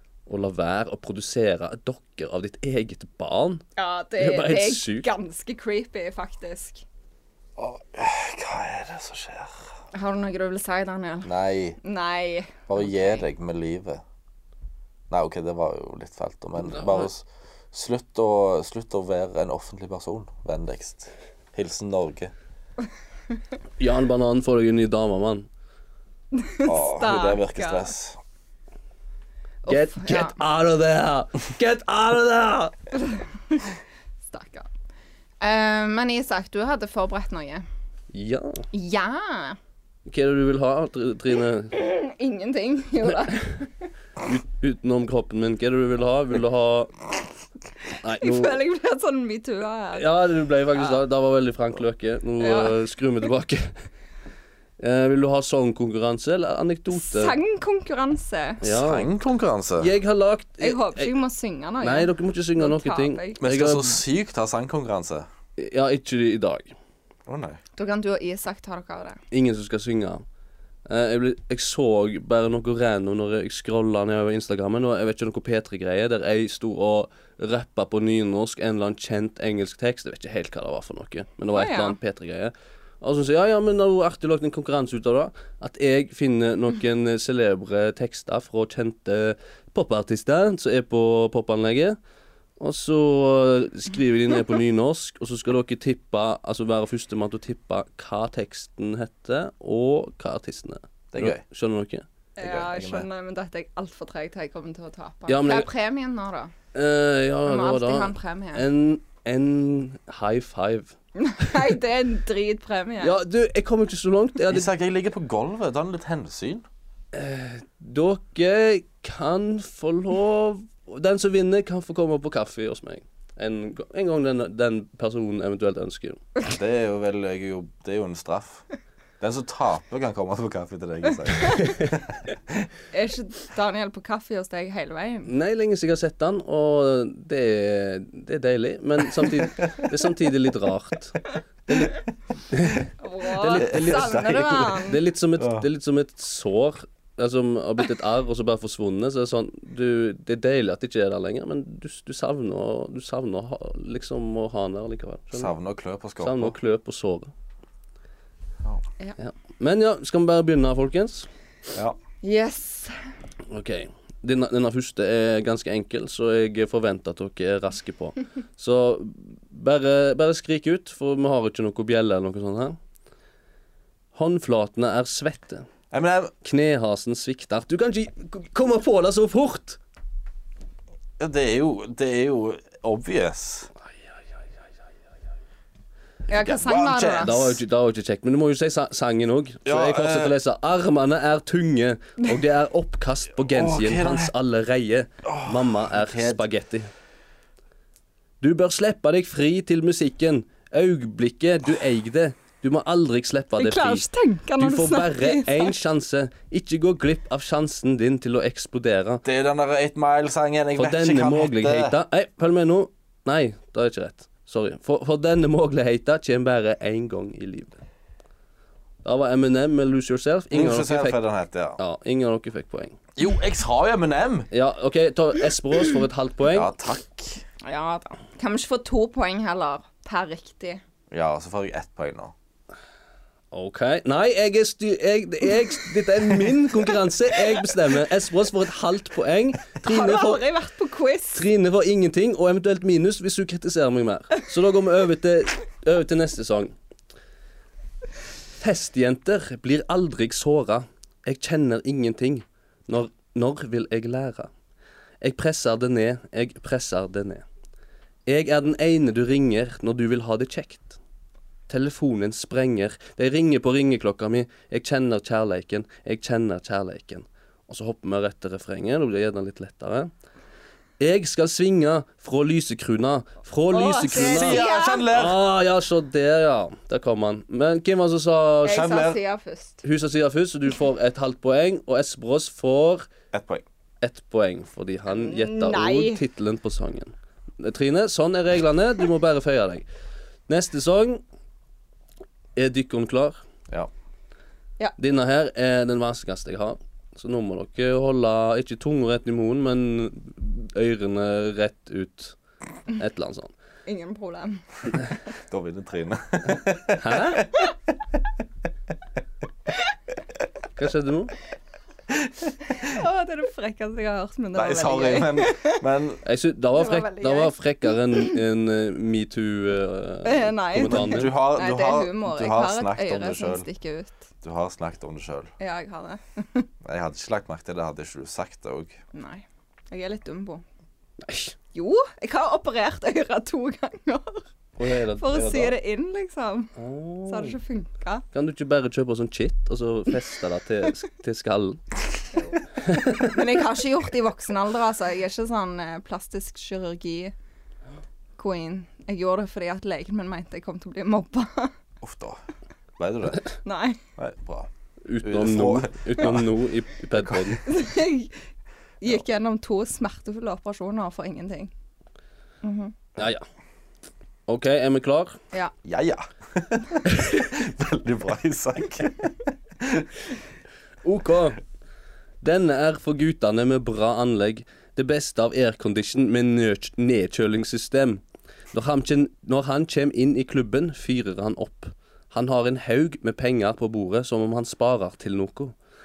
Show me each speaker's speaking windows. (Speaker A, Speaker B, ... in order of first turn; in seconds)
Speaker A: 0.3-3.6, 4.2-5.1, 16.6-17.1, 23.8-25.5, 29.7-32.7, 38.1-38.6, 40.0-41.8, 44.2-46.9, 48.0-48.6, 49.9-53.7, 54.8-57.4, 58.6-59.1, 59.8-61.1, 61.8-64.0, 65.6-66.7, 69.3-70.2, 70.8-92.0, 92.6-102.0, 105.3-105.7, 106.7-110.9, 113.0-114.7, 117.1-126.2, 135.2-141.9, 142.5-155.5, 156.2-157.3, 159.2-161.3, 163.5-172.8, 174.1-175.7, 176.4-179.8, 187.2-196.9, 198.4-204.1, 204.6-209.2, 210.8-217.8, 219.0-221.2, 221.8-223.0, 224.5-226.7, 233.5-240.4, 241.3-246.7, 248.6-254.5, 255.2-257.4, 258.3-261.0, 261.7-270.1, 271.0-278.9, 279.8-283.1, 284.0-289.9, 290.5-291.2, 292.6-293.4, 295.0-302.4, 302.9-303.5, 307.0-307.5, 310.7-311.4, 316.2-321.3, 331.2-331.5, 334.8-335.7, 336.8-337.6, 338.3-341.9, 342.8-343.4, 355.0-357.6, 363.2-363.4, 364.5-365.4, 371.0-371.6, 372.4-378.2, 378.7-385.7
Speaker B: 3.8-6.8, 9.9-13.2, 26.3-27.9, 29.6-30.4, 32.9-33.7, 34.2-34.7, 35.4-37.6, 38.7-39.6, 41.7-43.6, 48.2-50.1, 52.4-52.8, 56.9-58.6, 60.6-63.4, 67.8-69.2, 81.5-82.0, 102.4-106.5, 107.5-108.6, 111.2-113.2, 132.9-135.3, 143.0-145.0, 162.2-162.9, 186.3-187.5, 203.6-205.7, 227.6-230.8, 239.8-241.4, 273.7-275.1, 278.6-279.8, 285.1-286.2, 303.9-304.6, 312.7-315.8, 316.8-318.3, 320.2-324.2, 325.6-326.7, 329.1-330.6, 331.7-334.4, 335.1-336.7, 337.2-338.2, 342.3-342.6, 343.1-347.3, 348.4-351.7, 353.6-354.0, 357.6-358.4, 359.0-361.7, 362.6-362.9
Speaker C: 7.6-9.6, 11.2-11.8, 12.7-14.0, 15.1-22.3, 26.6-28.2, 58.6-59.9, 63.4-65.3, 67.3-67.6, 101.1-101.4, 102.4-103.1, 114.5-116.6, 126.5-128.6, 129.2-132.7, 143.6-144.6, 145.4-145.6, 155.3-156.5, 175.9-176.3, 181.2-183.7, 186.3-187.6, 189.7-190.3, 193.5-194.3, 195.2-196.4, 209.2-212.0, 220.5-221.8, 223.2-224.5, 226.5-227.4, 231.1-232.3, 274.1-275.4, 278.6-279.2, 283.3-283.6, 305.4-307.4, 314.5-316.2, 320.8-323.7, 324.4-325.5, 326.8-329.0, 352.0-352.4, 353.0-353.5, 354.2-354.7, 355.2-356.6, 357.1-357.6, 365.8-370.1